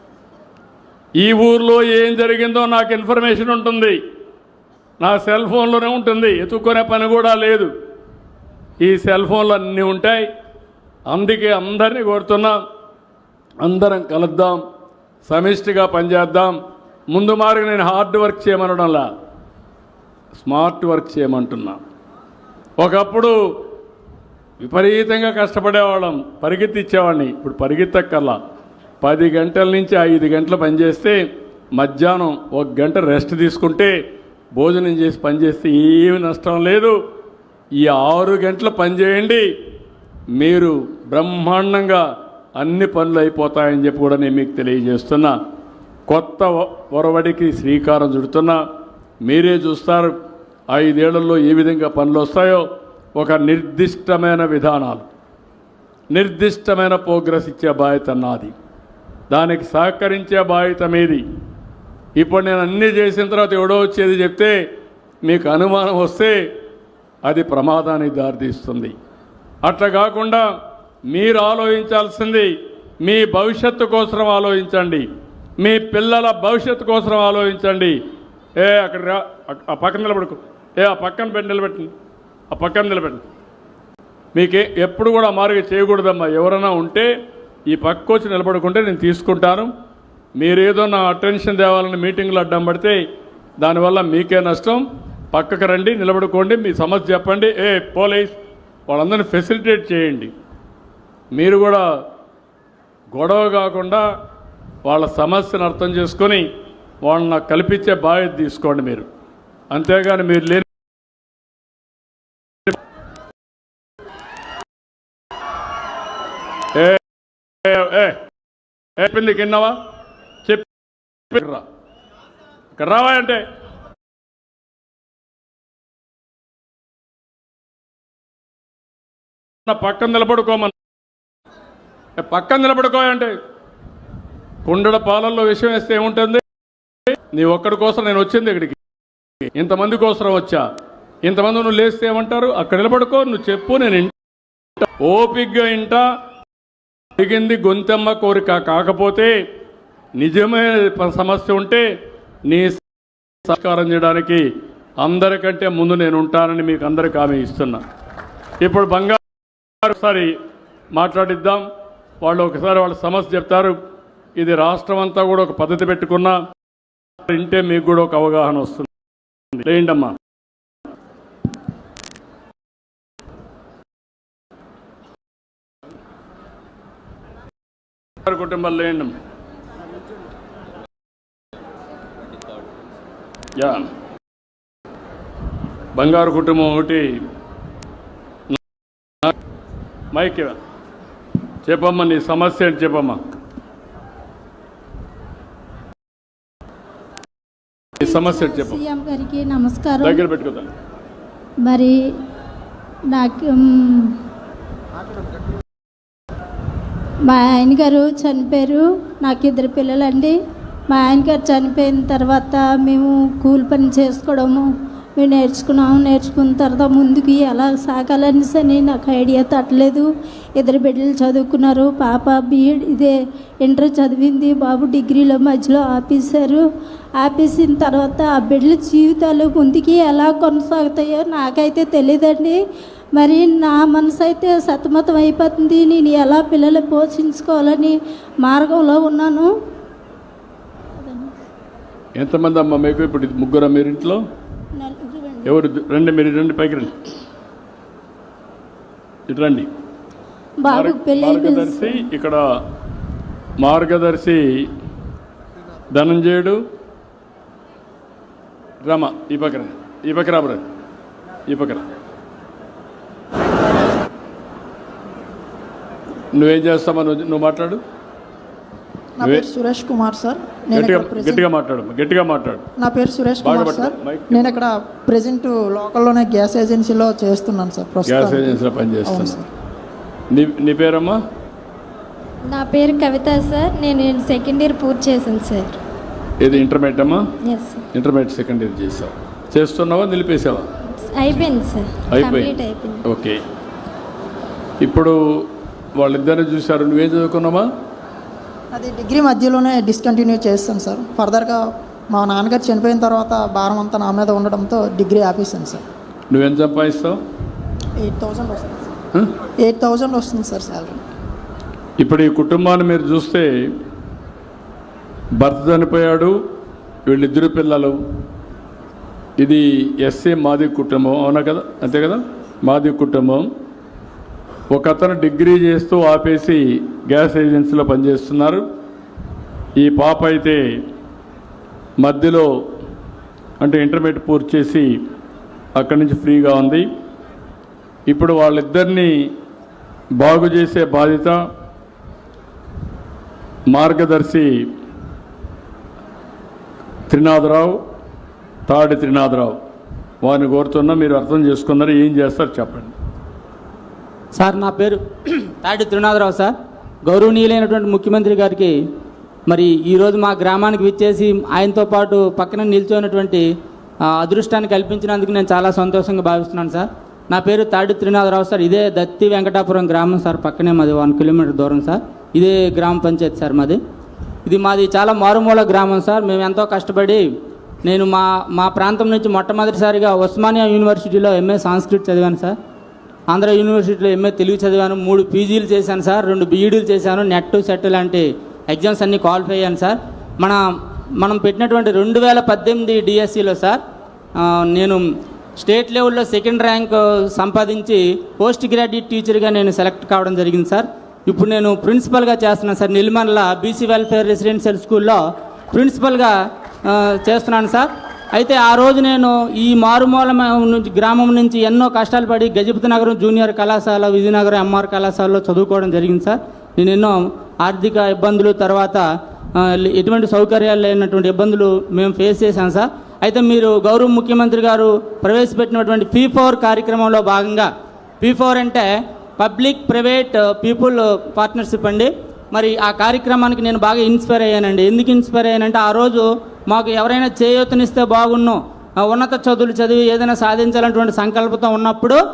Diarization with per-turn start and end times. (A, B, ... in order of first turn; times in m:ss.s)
0:01.2-0:04.0 A
0:05.0-0:07.7 A
0:08.8-0:10.3 A
0:11.1-0:12.6 A
0:13.6-0:14.6 A
0:15.2-0:16.6 A
0:17.1-0:19.1 A
0:20.4-0:21.8 A
0:22.8-0:23.4 A
0:24.6-0:28.4 A
0:29.0-0:31.2 A
0:31.7-0:34.0 A
0:34.5-0:37.0 A
0:37.8-0:39.5 A
0:40.3-0:42.0 A
0:42.6-0:45.4 A
0:46.1-0:48.6 A
0:49.2-0:50.1 A
0:50.7-0:55.1 A
0:56.1-0:58.5 A
0:59.3-1:01.2 A
1:02.2-1:04.5 A
1:05.2-1:06.4 A
1:07.2-1:08.9 A
1:09.6-1:10.5 A
1:11.1-1:15.1 A
1:15.6-1:18.0 A
1:18.6-1:21.9 A
1:22.5-1:23.2 A
1:24.3-1:27.1 A
1:27.7-1:29.7 A
1:30.4-1:33.0 A
1:33.6-1:40.3 A
1:41.3-1:41.8 A
1:43.1-1:44.0 A
1:44.8-1:46.4 A
1:47.0-1:49.1 A
1:49.7-1:50.7 A
1:56.7-1:57.0 A
1:57.6-1:58.2 A
1:59.0-1:59.8 A
2:01.3-2:01.6 A
2:02.8-2:03.4 A
2:09.7-2:10.7 A
2:12.2-2:13.3 A
2:14.6-2:16.4 A
2:17.3-2:18.8 A
2:19.5-2:20.6 A
2:21.2-2:24.1 A
2:25.0-2:26.0 A
2:27.2-2:29.3 A
2:30.2-2:31.8 A
2:32.5-2:32.8 A
2:33.4-2:34.4 A
2:35.0-2:37.8 A
2:38.6-2:39.2 A
2:39.8-2:40.3 A
2:40.9-2:41.6 A
2:42.2-2:43.8 A
2:44.4-2:46.4 A
2:47.2-2:48.9 A
2:49.5-2:50.2 A
2:58.2-2:59.1 A
3:03.6-3:03.9 A
3:06.0-3:07.1 A
3:10.1-3:10.6 A
3:11.6-3:13.2 A
3:18.0-3:18.8 A
3:18.0-3:20.2 B
3:20.0-3:20.7 A
3:21.6-3:22.0 B
3:23.1-3:24.2 B
3:27.2-3:30.4 B
3:30.9-3:46.6 B
3:47.2-3:52.6 B
3:53.1-3:59.5 B
4:01.0-4:01.3 B
4:02.2-4:04.2 A
4:04.8-4:05.5 B
4:05.4-4:06.9 A
4:09.3-4:09.7 A
4:10.6-4:12.1 B
4:10.7-4:12.4 A
4:13.6-4:14.7 A
4:15.9-4:16.6 A
4:18.8-4:20.6 A
4:21.5-4:21.8 A
4:26.3-4:27.8 A
4:29.2-4:31.4 C
4:30.8-4:32.6 A
4:32.8-4:39.4 C
4:33.4-4:34.6 A
4:38.1-4:39.4 A
4:40.3-4:41.2 A
4:42.4-4:45.8 D
4:46.4-4:47.2 A
4:47.4-4:47.8 D
4:47.9-4:50.6 A
4:51.0-4:53.0 D
4:52.1-4:53.4 A
4:54.8-4:57.6 A
4:58.7-5:01.6 C
5:02.1-5:05.8 C
5:06.3-5:07.2 A
5:08.0-5:08.9 C
5:09.6-5:11.0 C
5:12.0-5:13.5 A
5:15.4-5:16.4 A
5:17.1-5:18.0 A
5:19.4-5:23.5 A
5:24.7-5:28.6 A
5:29.8-5:30.6 A
5:32.0-5:32.5 A
5:33.6-5:34.9 A
5:35.8-5:36.8 A
5:38.1-5:39.1 A
5:40.2-5:41.4 A
5:43.7-5:44.5 A
5:47.1-5:47.8 A
5:48.7-5:49.6 A
5:50.2-5:52.9 A
5:54.4-5:56.5 E
5:57.0-5:58.8 E
5:59.5-6:03.4 E
6:04.1-6:13.8 E
6:14.4-6:17.2 E
6:17.8-6:22.6 E
6:23.3-6:30.6 E
6:31.2-6:33.8 E
6:34.4-6:35.0 E
6:35.6-6:45.2 E
6:45.7-6:46.3 E
6:46.9-6:59.0 E
6:59.6-7:07.7 E
7:08.2-7:08.9 E
7:09.4-7:22.2 E